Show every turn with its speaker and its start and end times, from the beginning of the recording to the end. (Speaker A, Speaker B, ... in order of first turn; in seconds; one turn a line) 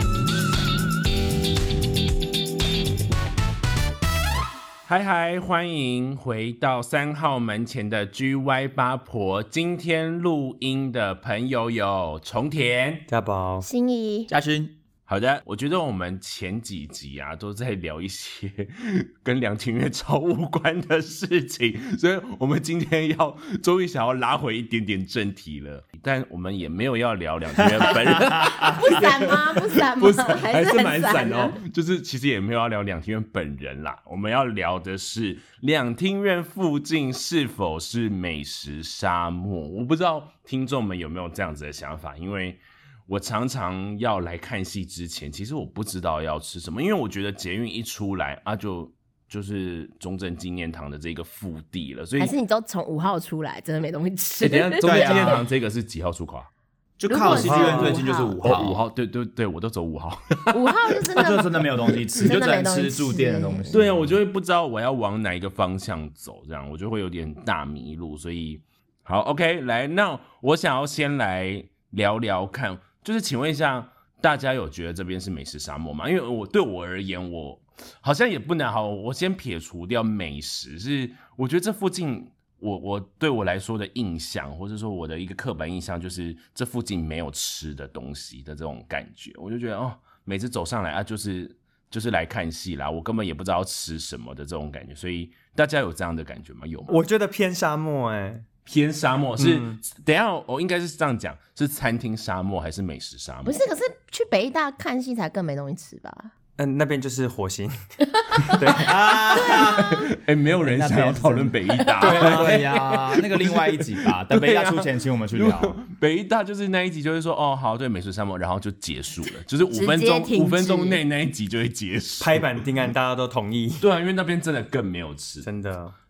Speaker A: 4.9-13.1
Speaker B: 13.1-13.7
Speaker C: 13.7-14.3
Speaker D: 14.3-14.8
Speaker A: 15.1-52.3
Speaker D: 27.8-28.9
Speaker C: 28.6-31.6
Speaker C: 52.2-55.5
Speaker A: 54.4-56.5
Speaker D: 54.8-55.4
Speaker D: 57.0-58.8
Speaker C: 57.1-58.4
Speaker B: 57.3-58.0
Speaker A: 58.4-61.4
Speaker C: 60.5-63.7
Speaker D: 61.2-64.2
Speaker A: 63.7-97.0
Speaker B: 96.9-98.4
Speaker A: 98.7-103.6
Speaker B: 99.4-99.8
Speaker C: 103.5-106.3
Speaker B: 106.6-107.8
Speaker C: 108.1-110.0
Speaker B: 108.5-108.9
Speaker D: 108.7-115.8
Speaker A: 109.7-122.5
Speaker B: 112.0-112.6
Speaker C: 119.7-121.0
Speaker B: 122.2-123.8
Speaker A: 123.8-125.5
Speaker B: 125.4-126.0